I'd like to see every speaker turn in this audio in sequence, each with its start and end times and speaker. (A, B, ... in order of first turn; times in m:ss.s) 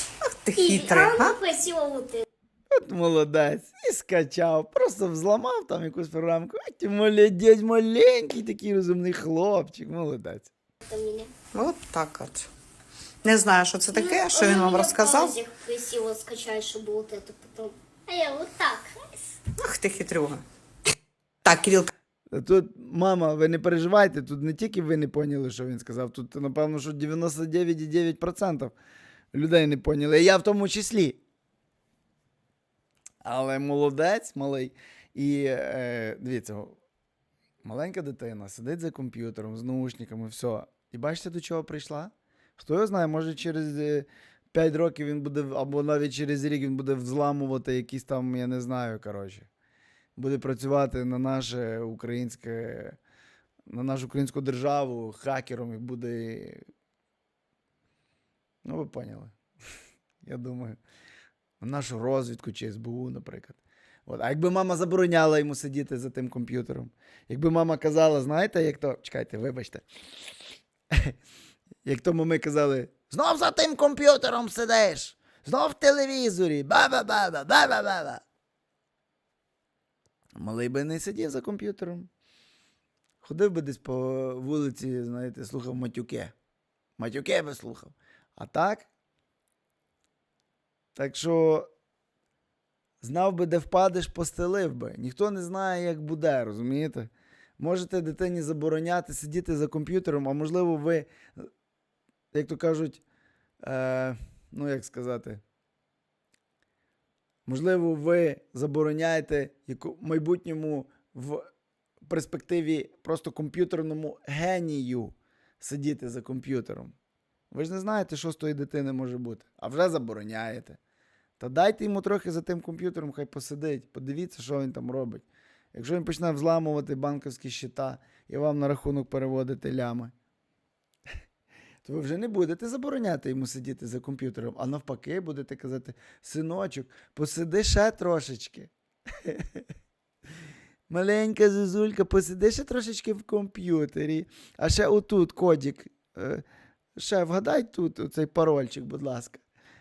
0:00.4-0:01.4 A
0:00.6-0:02.2 B
0:02.7-0:10.5 C
0:10.8-0:11.3 B
0:11.5-0:12.5 A
0:13.2-0:15.4 A
0:13.9-0:19.3 B
0:19.6-0:20.4 A
0:21.4-0:21.9 A
0:22.3-0:28.7 C
0:29.3-0:31.2 C
0:33.2-0:36.8 C
0:37.6-0:49.5 C
0:50.2-0:53.0 C
0:53.7-0:56.6 C
0:58.6-0:59.4 C
1:00.2-1:00.8 C
1:01.6-1:09.8 C
1:11.8-1:18.2 C
1:20.4-1:22.1 C
1:23.2-1:26.3 C
1:27.0-1:28.9 C
1:31.0-1:31.7 C
1:33.0-1:41.5 C
1:42.3-1:43.0 C
1:43.6-1:45.4 C
1:47.5-1:51.5 C
1:52.0-1:56.9 C
1:57.5-2:00.8 C
2:01.4-2:10.1 C
2:11.8-2:18.7 C
2:19.2-2:19.6 C
2:20.9-2:26.4 C
2:27.0-2:29.4 C